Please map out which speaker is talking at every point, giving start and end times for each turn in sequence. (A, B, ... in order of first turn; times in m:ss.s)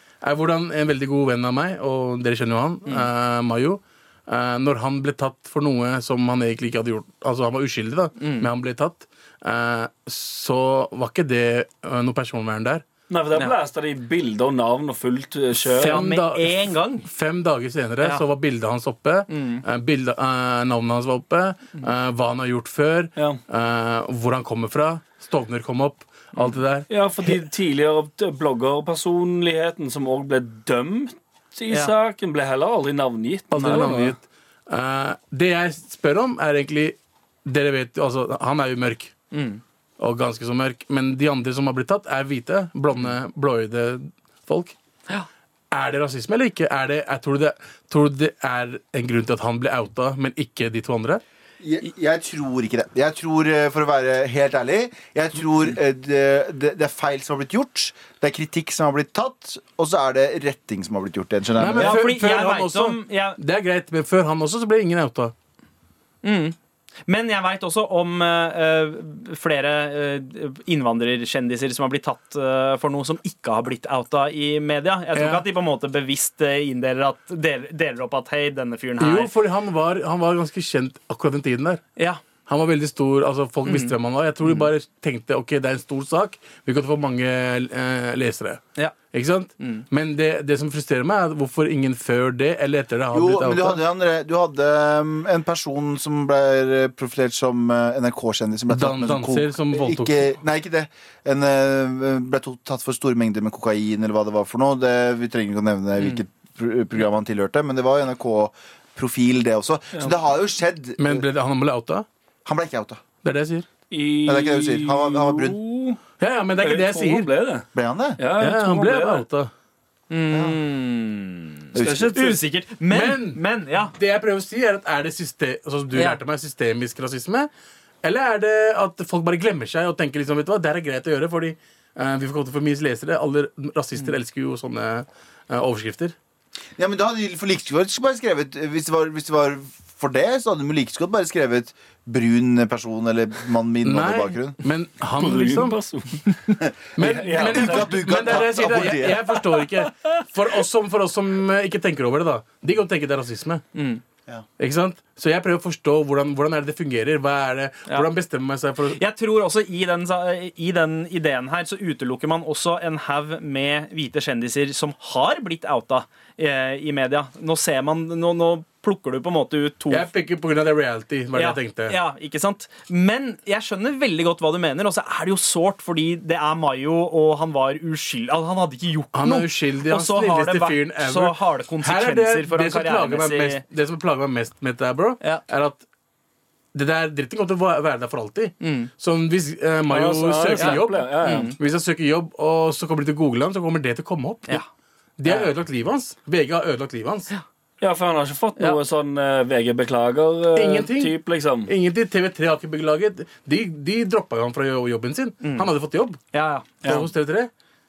0:00.2-0:12.8 A
0:08.2-0:08.5 B
0:13.1-0:16.0 C
0:15.7-0:27.3 A
0:15.7-0:17.0 B
0:19.3-0:19.6 B
0:26.9-0:34.1 C
0:33.5-0:39.1 A
0:39.3-0:39.6 B
0:40.0-0:44.7 A
0:45.7-0:51.2 A
0:51.6-1:02.1 D
1:01.6-1:05.3 A
1:01.8-1:03.4 B
1:06.2-1:06.6 B
1:07.1-1:19.3 B
1:15.1-1:15.4 A
1:19.0-1:21.8 A
1:22.4-1:33.8 A
1:23.6-1:24.7 B
1:29.6-1:29.8 B
1:33.1-1:51.2 D
1:38.7-1:40.3 A
1:51.0-1:52.0 A
1:52.4-1:53.0 D
1:53.2-1:53.7 A
1:53.9-1:56.0 C
1:54.2-1:55.6 D
1:56.2-1:57.3 A
1:56.6-1:57.7 C
1:57.7-1:58.2 D
1:58.2-1:59.2 C
1:58.4-1:59.5 A
2:00.1-2:03.9 B
2:00.3-2:00.6 D
2:01.7-2:02.2 D
2:01.8-2:02.4 C
2:02.9-2:03.4 A
2:03.9-2:07.5 A
2:05.9-2:06.2 B
2:08.0-2:16.1 A
2:16.8-2:24.6 D
2:23.8-2:25.8 A
2:25.1-2:26.4 C
2:27.0-2:33.6 A
2:27.0-2:28.0 C
2:27.3-2:29.4 D
2:33.7-2:34.0 B
2:34.6-2:39.0 A
2:38.9-2:50.1 B
2:49.9-2:52.0 A
2:51.3-3:03.6 B
2:59.1-3:05.8 A
3:06.7-3:14.6 A
3:08.6-3:08.9 B
3:09.9-3:11.5 C
3:10.6-3:11.6 B
3:15.2-3:17.3 A
3:15.2-3:15.5 B
3:17.8-3:21.7 C
3:20.5-3:26.2 A
3:25.4-3:25.7 B
3:26.3-3:26.8 B
3:26.8-3:27.5 A